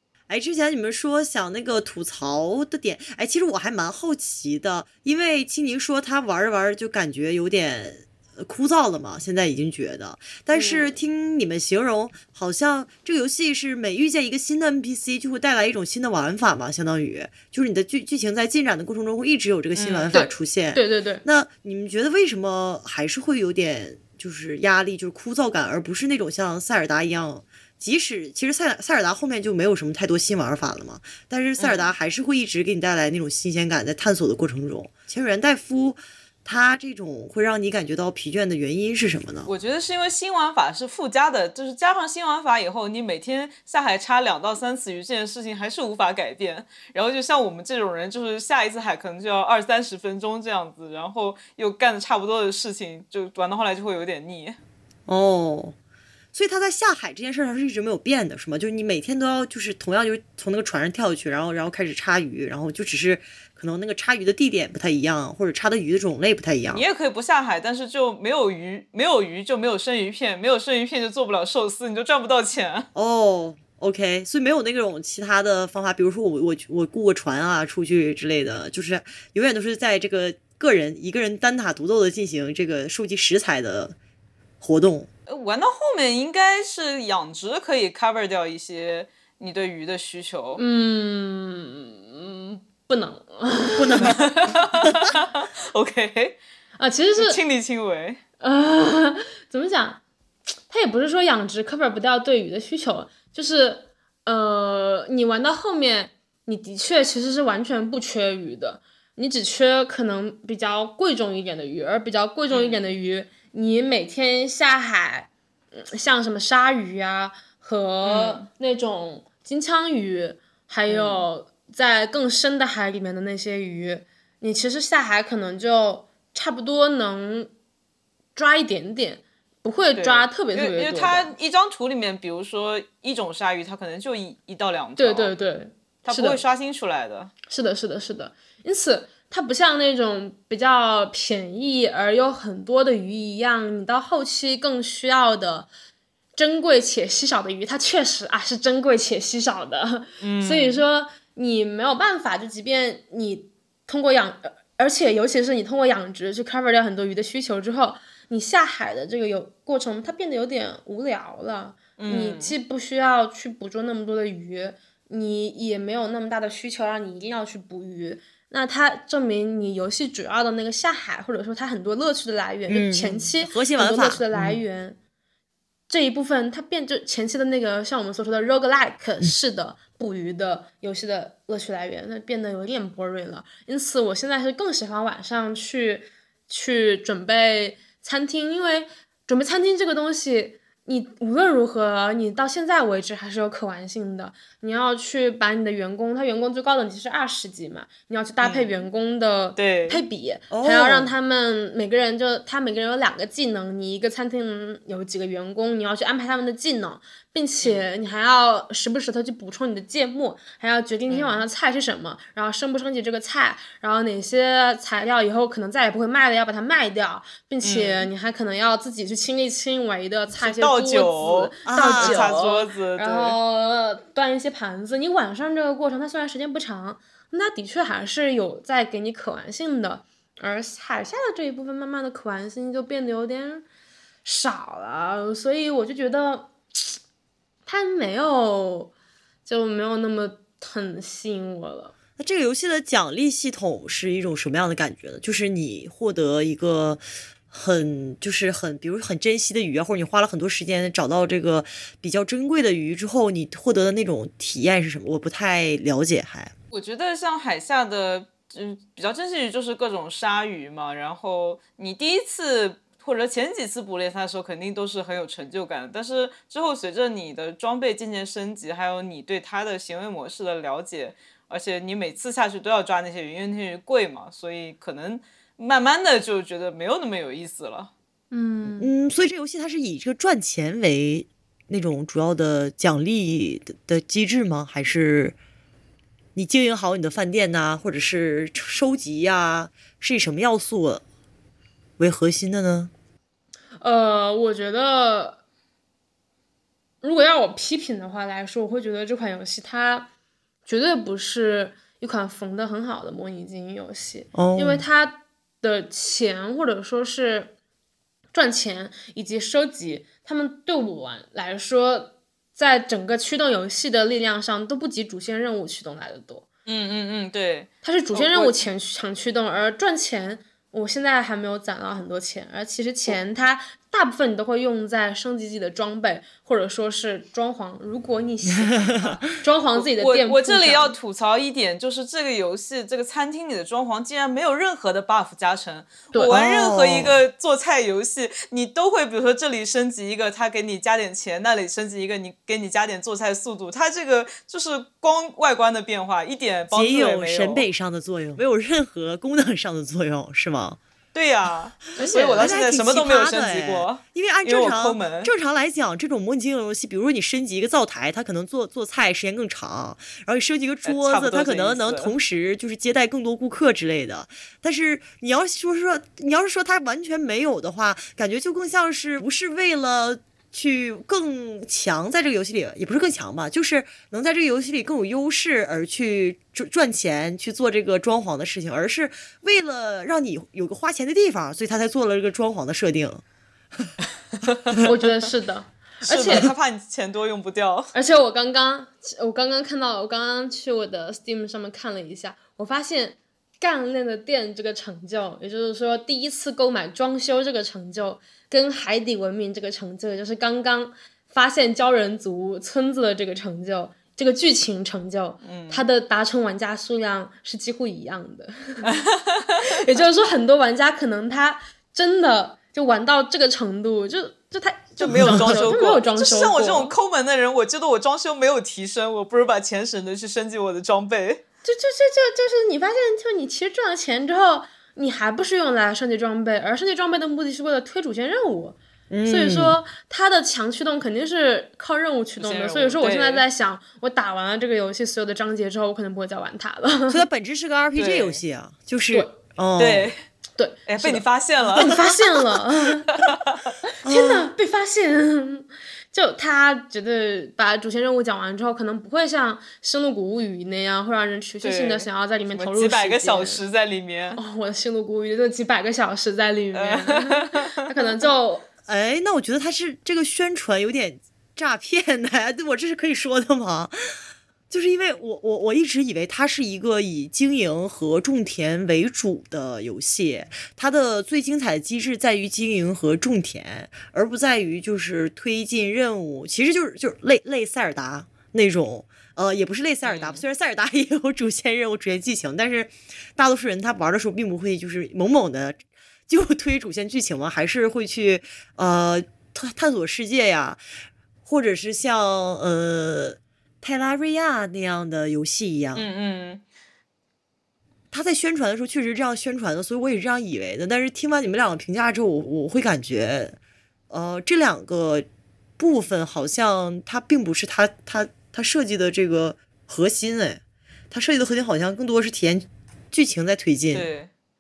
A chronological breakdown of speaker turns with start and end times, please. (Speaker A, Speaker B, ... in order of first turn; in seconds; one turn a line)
Speaker A: 0.3-39.5
Speaker B: 10.5-10.9
Speaker C: 19.8-20.1
Speaker B: 20.1-21.2
Speaker C: 31.6-31.9
Speaker C: 39.5-54.6
Speaker A: 55.1-55.7
Speaker A: 56.3-66.8
Speaker C: 66.7-72.9
Speaker A: 72.9-84.0
Speaker A: 84.6-85.1
Speaker C: 85.3-90.6
Speaker B: 90.6-94.2
Speaker A: 93.7-94.2
Speaker C: 94.0-96.4
Speaker B: 96.8-97.4
Speaker C: 97.2-98.2
Speaker B: 98.4-100.0
Speaker B: 100.7-127.5
Speaker C: 112.5-112.8
Speaker C: 118.0-118.5
Speaker C: 120.9-121.2
Speaker B: 128.4-131.3
Speaker C: 129.9-135.3
Speaker B: 135.0-136.4
Speaker C: 136.1-137.3
Speaker B: 137.5-145.7
Speaker B: 146.4-175.0
Speaker C: 150.2-150.8
Speaker C: 162.0-162.6
Speaker A: 172.7-174.6
Speaker B: 175.9-233.6
Speaker C: 198.4-198.7
Speaker C: 199.6-200.0
Speaker A: 200.5-201.1
Speaker C: 211.1-211.4
Speaker C: 217.6-218.1
Speaker C: 220.3-223.4
Speaker A: 221.7-222.4
Speaker B: 234.2-236.5
Speaker B: 237.7-238.9
Speaker B: 239.4-241.9
Speaker A: 242.2-256.5
Speaker C: 256.7-277.9
Speaker B: 278.3-278.9
Speaker A: 278.8-285.4
Speaker A: 286.4-291.0
Speaker A: 292.0-292.9
Speaker B: 293.8-295.4
Speaker B: 297.0-300.1
Speaker B: 300.6-307.5
Speaker A: 304.3-304.8
Speaker B: 308.3-316.5
Speaker C: 316.6-318.6
Speaker B: 317.8-330.9
Speaker A: 328.6-329.2
Speaker C: 329.8-347.6
Speaker B: 336.1-336.4
Speaker A: 336.3-337.2
Speaker A: 346.7-350.8
Speaker C: 351.1-355.3
Speaker B: 351.9-352.6
Speaker A: 352.0-383.2
Speaker C: 360.8-362.1
Speaker C: 384.6-384.8
Speaker B: 384.8-386.5
Speaker C: 386.0-387.9
Speaker B: 387.9-408.9
Speaker C: 405.4-405.8
Speaker C: 408.9-409.6
Speaker B: 409.6-416.9
Speaker C: 415.0-421.4
Speaker A: 415.1-415.6
Speaker B: 421.6-437.2
Speaker A: 429.1-429.8
Speaker C: 432.4-433.4
Speaker A: 437.1-440.1
Speaker C: 437.9-438.4
Speaker C: 439.8-440.2
Speaker B: 440.6-443.1
Speaker C: 440.9-441.9
Speaker C: 443.2-443.6
Speaker A: 444.0-444.5
Speaker B: 444.0-453.6
Speaker C: 451.6-454.4
Speaker B: 454.4-458.6
Speaker C: 456.7-457.8
Speaker A: 458.9-463.9
Speaker A: 464.7-490.8
Speaker C: 480.0-480.4
Speaker A: 491.4-496.1
Speaker C: 495.9-496.6
Speaker A: 498.1-503.6
Speaker A: 504.1-505.3
Speaker A: 505.8-514.1
Speaker C: 513.9-514.3